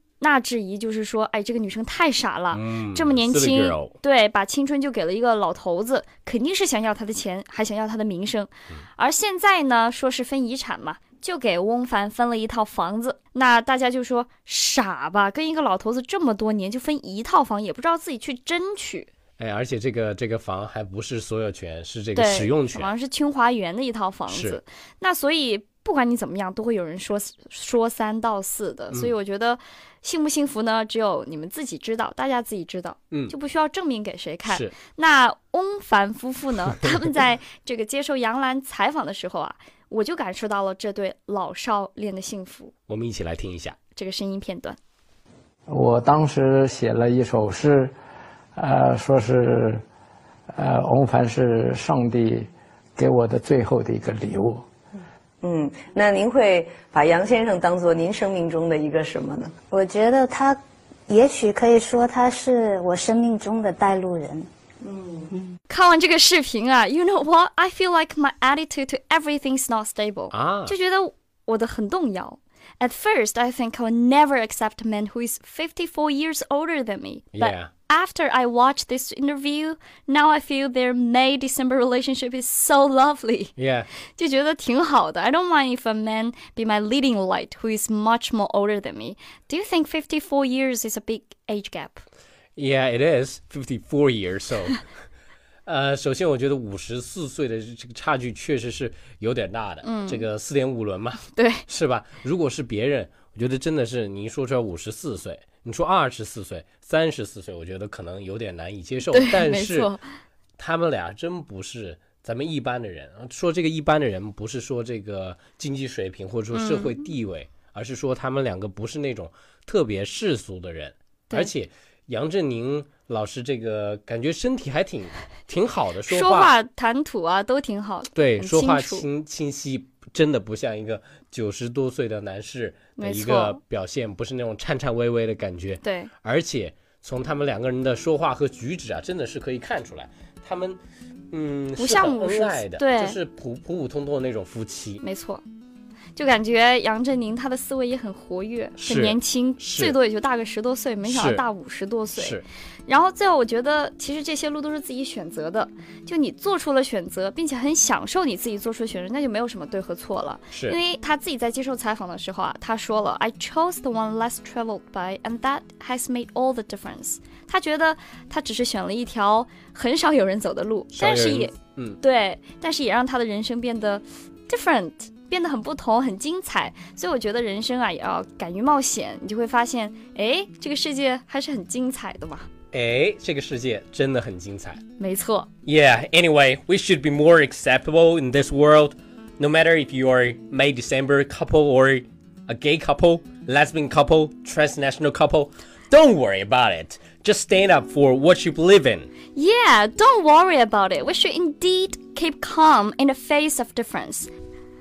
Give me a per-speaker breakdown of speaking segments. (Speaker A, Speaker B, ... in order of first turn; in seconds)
Speaker A: 0.2-19.1, 22.1-42.7, 44.0-44.8, 65.7-83.5, 84.2-92.0, 99.8-100.2, 101.3-101.7, 109.1-110.0, 116.5-117.1, 126.1-129.1, 133.0-133.6, 135.8-136.1, 141.8-143.2, 145.0-145.4, 146.2-182.5, 185.0-185.5, 199.3-204.3
Speaker B: 2.5-3.9, 19.4-22.9, 24.3-24.6, 34.5-34.7, 42.9-43.8, 70.3-70.8, 77.3-77.7, 83.6-83.9, 92.6-94.8, 95.7-109.9, 110.6-126.5, 128.2-140.8, 141.3-145.0, 148.8-150.0, 151.0-151.4, 152.1-152.4, 160.5-160.8, 170.9-172.0, 182.7-184.8, 185.7-199.1
Speaker C: 45.7-47.9, 48.6-49.8, 50.5-54.7
Speaker D: 55.4-59.6, 64.8-65.3
Speaker E: 59.7-64.5